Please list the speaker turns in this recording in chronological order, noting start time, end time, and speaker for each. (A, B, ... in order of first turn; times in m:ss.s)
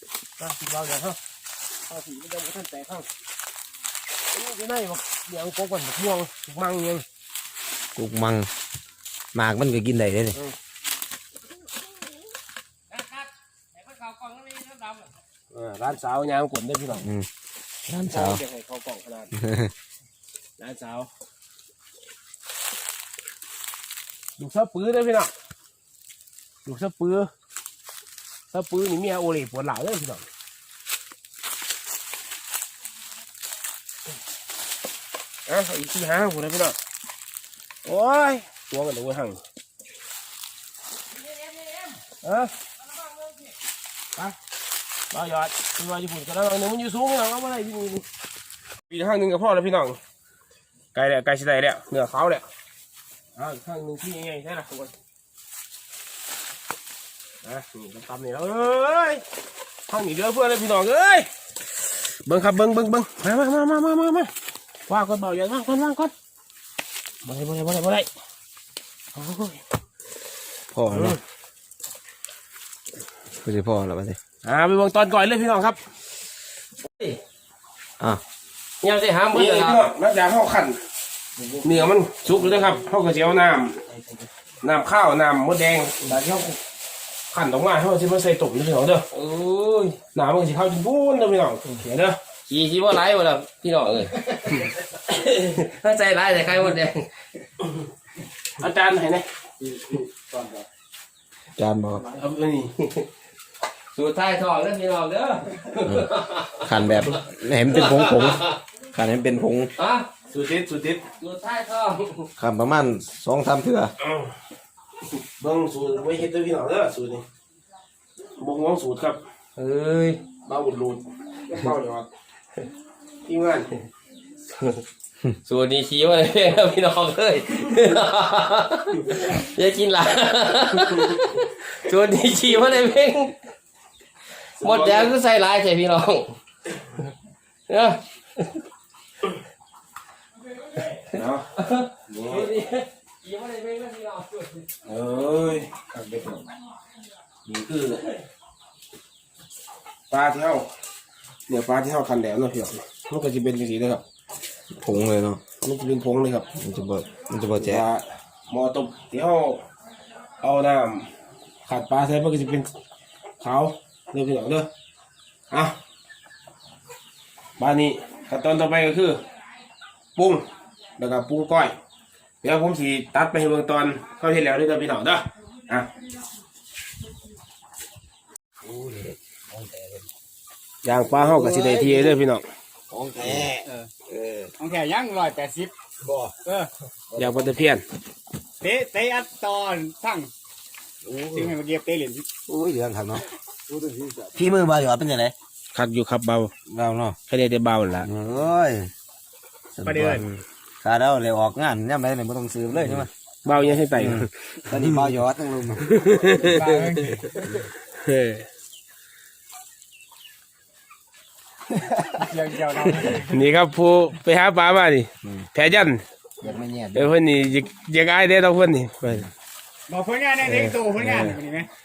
0:00.4-0:01.2 A
0:01.9-0:03.1 A
0:04.3-0:07.0 A
0:08.0-0:08.5 B
0:09.3-0:10.4 B
0:12.9-0:15.2 C
0:15.5-0:17.1 A
0:17.0-0:17.3 B
0:17.9-0:18.4 B
0:18.0-0:19.3 A
0:19.3-0:19.7 B
0:20.6-0:21.1 A
0:24.4-0:25.3 A
0:26.6-0:27.3 A
0:28.5-0:30.2 A
0:35.5-0:36.8 A
0:37.8-0:39.4 A
0:42.2-0:42.5 A
0:45.1-0:48.0 A
0:48.9-0:50.0 A
0:50.9-0:52.5 A
0:53.4-0:54.9 A
0:57.4-0:59.2 A
0:59.9-1:01.3 A
1:01.9-1:04.3 A
1:04.9-1:06.1 A
1:07.2-1:08.1 A
1:09.2-1:09.6 A
1:10.7-1:11.2 B
1:10.8-1:11.2 A
1:13.4-1:14.2 B
1:14.4-1:15.8 A
1:18.8-1:19.8 C
1:19.3-1:20.8 A
1:21.4-1:21.9 B
1:21.6-1:23.8 A
1:24.6-1:26.6 A
1:27.3-1:29.1 A
1:29.1-1:30.0 C
1:30.0-1:32.3 A
1:32.5-1:37.1 C
1:38.6-1:39.3 A
1:39.8-1:40.5 B
1:41.6-1:42.1 B
1:42.1-1:42.8 A
1:42.8-1:43.1 C
1:43.9-1:47.1 C
1:46.6-1:49.7 B
1:47.7-1:48.6 C
1:49.8-1:50.2 C
1:50.2-1:51.1 A
1:51.1-1:52.3 C
1:52.4-1:53.9 B
1:54.0-1:54.3 A
1:55.4-1:57.2 A
1:58.4-1:59.2 A
1:59.6-2:00.3 C
2:00.3-2:02.1 A
2:03.2-2:03.7 A
2:05.4-2:13.4 C
2:14.6-2:16.4 C
2:14.6-2:15.2 A
2:17.7-2:18.6 C
2:20.7-2:24.7 C
2:21.1-2:21.5 A
2:22.1-2:22.5 A
2:24.8-2:26.4 A
2:27.5-2:28.1 A
2:30.1-2:30.7 A
2:31.5-2:34.0 A
2:34.8-2:35.4 B
2:35.6-2:36.5 A
2:36.6-2:37.9 B
2:37.6-2:39.6 A
2:40.4-2:41.1 A
2:41.7-2:42.7 A
2:43.4-2:44.7 A
2:47.6-2:49.2 A
2:50.2-2:50.5 A
2:51.0-2:51.8 A
2:52.4-2:55.9 A
2:58.6-3:00.1 B
3:00.8-3:02.4 A
3:01.0-3:02.2 B
3:02.9-3:04.5 B
3:03.3-3:03.9 D
3:04.6-3:05.7 D
3:06.0-3:06.4 B
3:07.1-3:07.6 B
3:07.2-3:07.8 A
3:08.6-3:10.3 D
3:11.0-3:11.6 B
3:11.3-3:12.3 D
3:12.5-3:15.4 B
3:15.7-3:16.5 A
3:16.7-3:17.2 B
3:17.3-3:18.1 A
3:18.0-3:18.9 B
3:19.7-3:20.3 B
3:19.8-3:20.2 D
3:20.8-3:23.1 B
3:22.9-3:25.0 A
3:23.9-3:26.0 B
3:25.8-3:26.6 A
3:26.4-3:27.4 D
3:28.0-3:28.5 A
3:31.9-3:33.5 D
3:33.0-3:36.0 A
3:36.4-3:37.2 B
3:36.9-3:39.3 A
3:39.9-3:41.7 D
3:40.4-3:40.8 B
3:40.6-3:41.4 A